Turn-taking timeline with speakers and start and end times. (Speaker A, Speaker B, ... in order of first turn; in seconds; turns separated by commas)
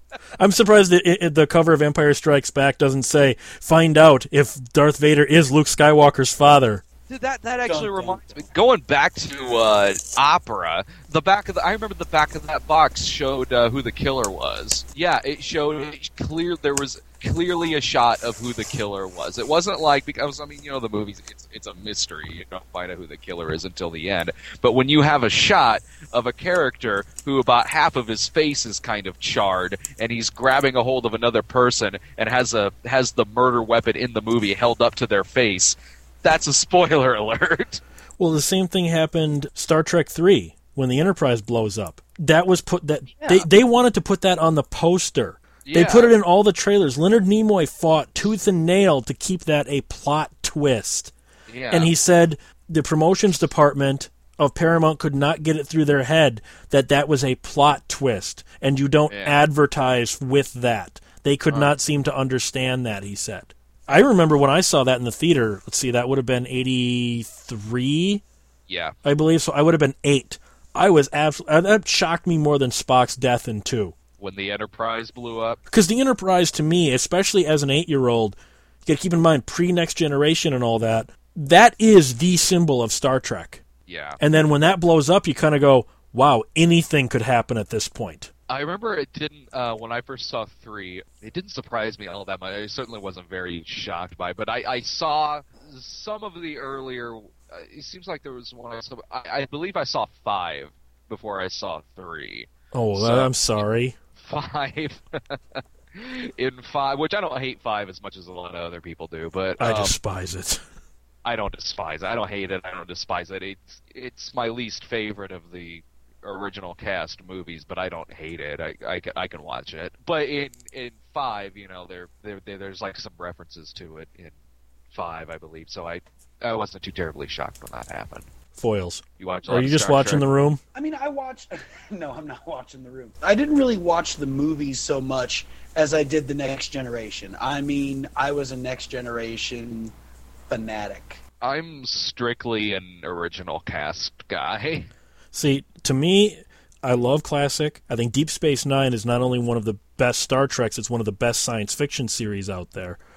Speaker A: 0.4-6.8, Speaker B: 7.1-37.8, Speaker C: 7.7-8.5, Speaker A: 38.2-51.1, Speaker B: 43.2-43.5, Speaker B: 45.6-46.1, Speaker B: 51.5-51.9, Speaker A: 51.7-68.2, Speaker B: 59.1-59.4, Speaker B: 68.7-69.0, Speaker A: 69.0-74.0, Speaker B: 74.2-75.6, Speaker A: 75.7-83.6, Speaker B: 83.9-84.2, Speaker A: 84.2-88.3, Speaker B: 88.5-103.6, Speaker A: 102.7-104.0, Speaker B: 104.2-110.0, Speaker A: 109.6-110.6, Speaker B: 111.2-124.3, Speaker B: 124.9-128.3, Speaker A: 128.6-130.6, Speaker B: 129.2-130.3, Speaker C: 130.7-139.9, Speaker C: 140.5-141.2, Speaker B: 141.4-144.9, Speaker A: 145.3-153.0